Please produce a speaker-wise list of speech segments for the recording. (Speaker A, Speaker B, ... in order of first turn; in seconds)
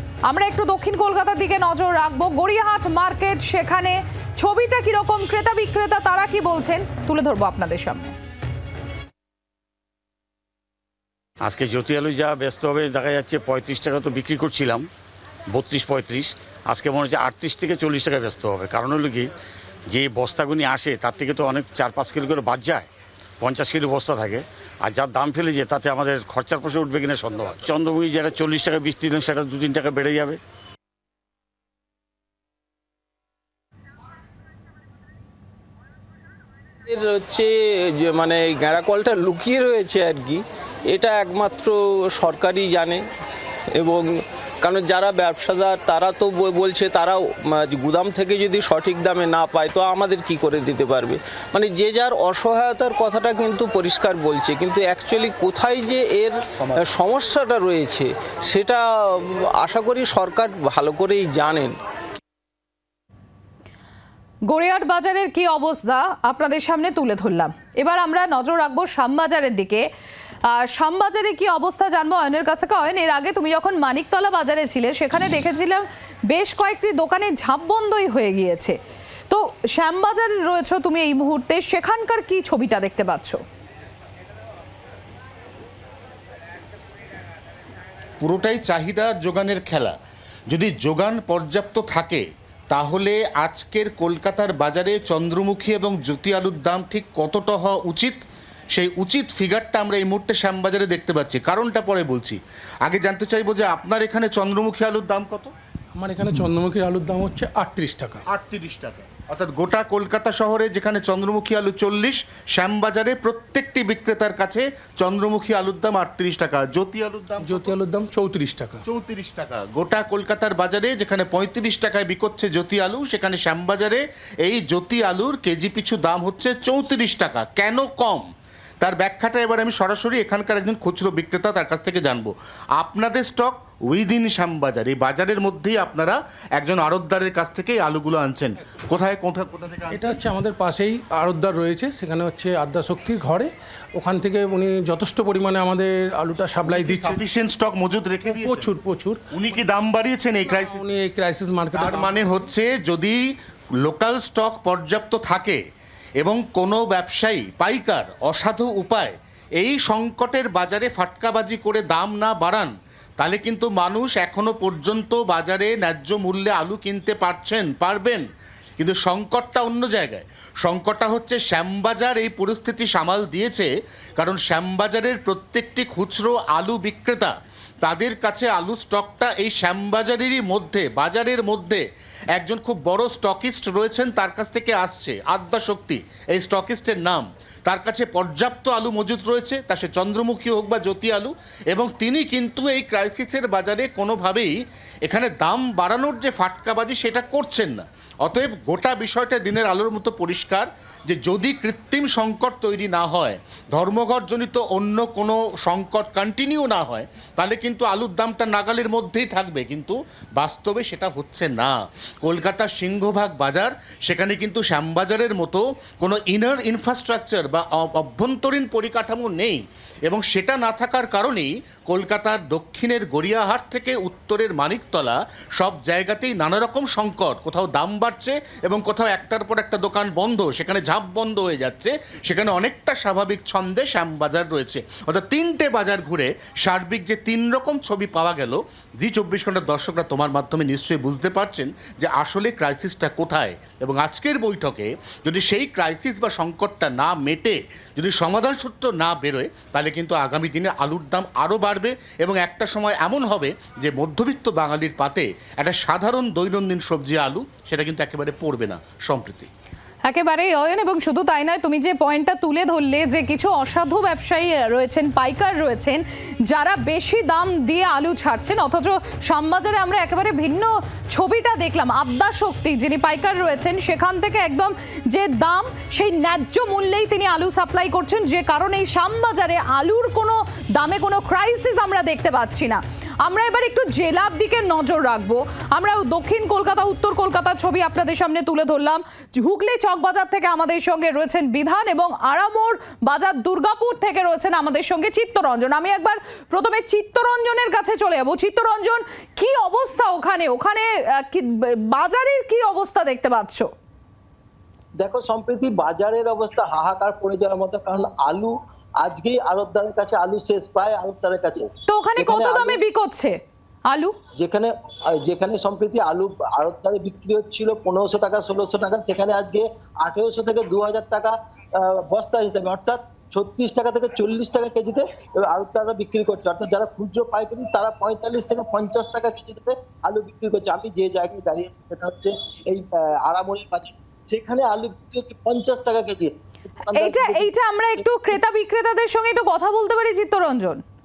Speaker A: 0.2-8.1, 64.5-69.8, 70.5-78.8, 79.3-83.4, 260.1-303.7, 311.9-313.4, 313.9-314.1, 336.9-340.8
Speaker B: 11.4-14.9, 15.5-19.3, 19.9-22.9, 23.4-30.4
Speaker C: 36.9-43.0, 43.7-61.8
Speaker D: 88.2-90.0, 90.5-98.2, 98.7-105.5, 108.3-117.8, 118.8-128.2, 128.8-140.2, 146.7-148.7, 149.3-150.8, 151.7-153.2, 153.8-155.6, 156.2-168.2, 168.8-177.3, 177.8-181.8, 182.3-194.5, 195.0-259.5
Speaker E: 105.9-108.2, 117.4-118.8, 139.9-147.2, 148.2-149.2, 150.5-152.3
Speaker F: 305.0-312.8, 314.3-338.4